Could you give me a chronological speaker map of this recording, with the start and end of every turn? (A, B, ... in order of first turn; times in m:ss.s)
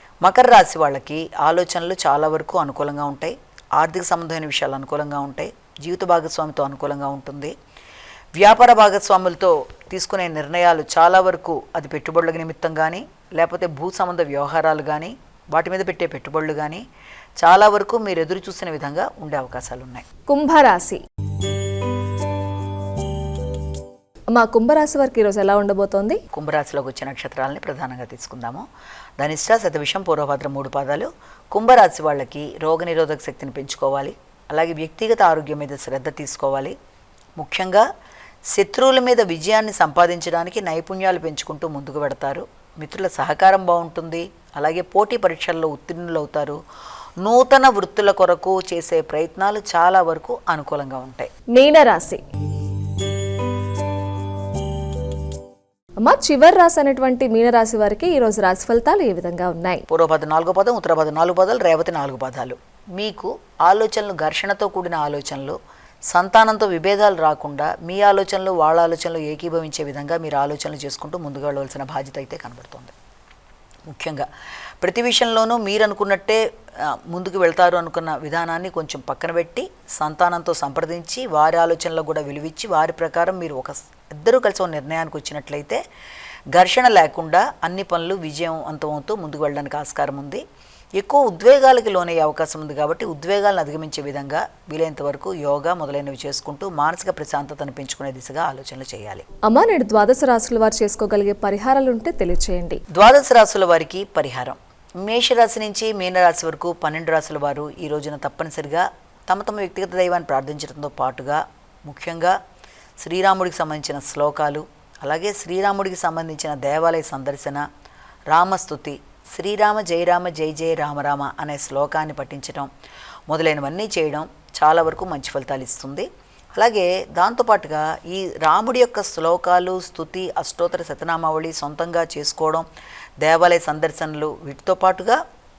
0:00.2-0:07.5 A
0:08.4-0:16.8 A
0:17.4-0:20.0 A
0:20.3-0:21.0 B
0:24.3-0:26.2 B
0:26.3-0:28.6 A
0:29.2-0:36.8 A
0:37.4-0:37.8 A
0:38.5-0:46.6 A
0:47.2-0:51.3 A
0:51.5-0:52.2 B
0:56.0-0:59.8 B
0:59.9-1:05.6 A
1:06.1-1:12.9 A
1:13.9-1:14.3 A
1:14.8-1:25.8 A
1:26.5-1:30.4 A
1:31.0-1:39.2 A
1:39.4-1:42.8 B
1:42.9-1:52.3 A
1:53.0-1:57.6 A
1:58.3-2:02.7 A
2:03.3-2:12.7 A
2:13.2-2:15.2 A